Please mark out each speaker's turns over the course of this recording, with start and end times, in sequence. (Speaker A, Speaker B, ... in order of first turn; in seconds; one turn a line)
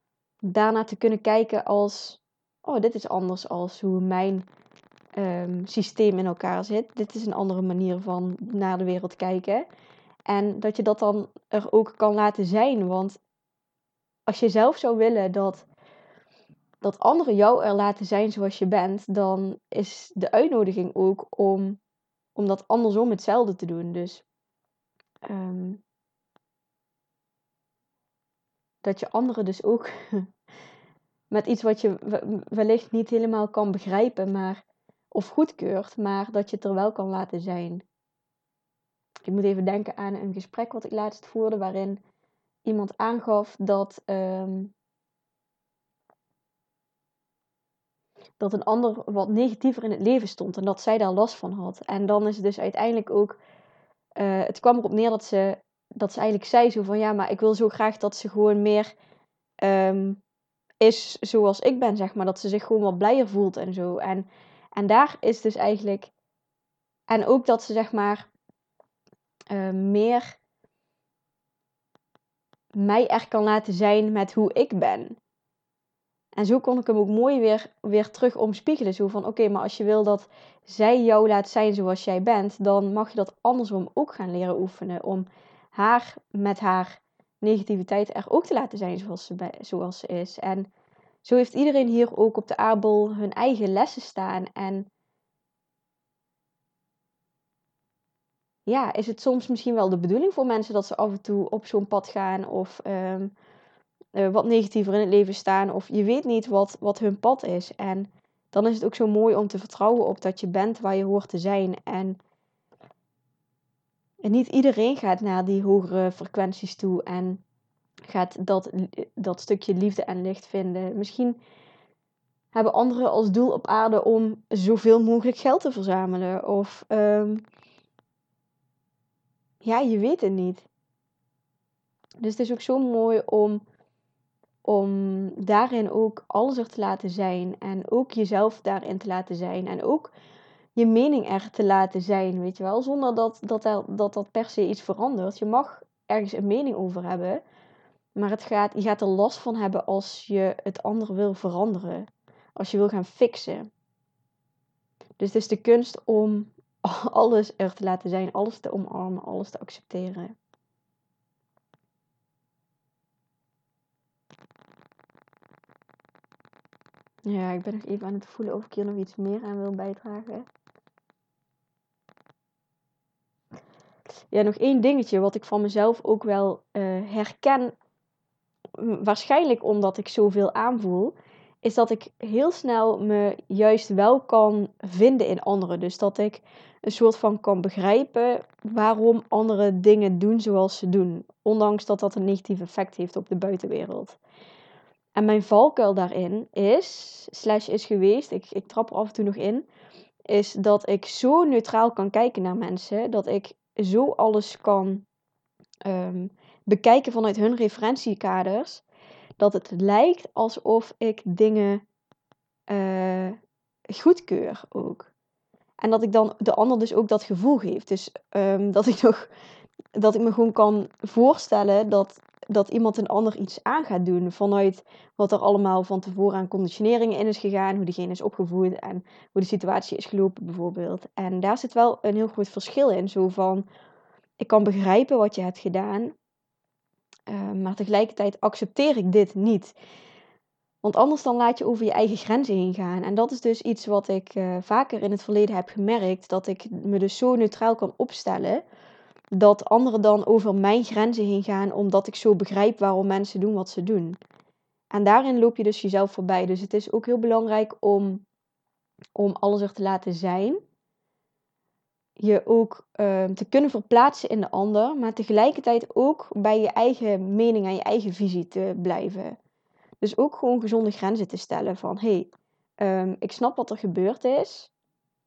Speaker A: 0.4-4.5
Speaker A: 5.2-9.7
Speaker A: 10.3-13.2
Speaker A: 14.3-15.7
Speaker A: 16.8-21.8
Speaker A: 22.4-24.2
Speaker A: 25.3-25.8
Speaker A: 28.8-30.3
Speaker A: 31.3-37.9
Speaker A: 39.3-42.0
Speaker A: 42.6-44.7
Speaker A: 48.4-53.4
Speaker A: 54.2-58.9
Speaker A: 59.6-60.2
Speaker A: 60.8-66.1
Speaker A: 67.1-68.3
Speaker A: 69.5-70.4
Speaker A: 72.8-75.2
Speaker A: 76.4-90.7
Speaker A: 91.2-94.9
Speaker A: 98.7-103.3
Speaker A: 104.2-112.2
Speaker A: 114.2-117.4
Speaker A: 118.1-121.4
Speaker A: 122.5-127.4
Speaker A: 129.6-130.7
Speaker A: 132.2-133.6
Speaker A: 134.7-140.1
Speaker A: 140.8-147.4
Speaker A: 148.2-153.7
Speaker A: 155.2-160.4
Speaker A: 167.3-170.5
Speaker A: 174.3-177.7
Speaker A: 178.8-194.2
Speaker A: 195.2-199.7
Speaker A: 200.3-205.1
Speaker A: 205.9-208.8
Speaker A: 209.4-211.8
Speaker A: 212.7-213.4
Speaker A: 213.9-215.1
Speaker A: 215.8-219.3
Speaker A: 220.0-233.7
Speaker A: 234.4-236.2
Speaker A: 237.3-239.8
Speaker A: 240.8-248.6
Speaker A: 249.3-254.2
Speaker A: 254.9-258.2
Speaker A: 259.1-260.6
Speaker A: 262.2-269.4
Speaker A: 270.0-274.7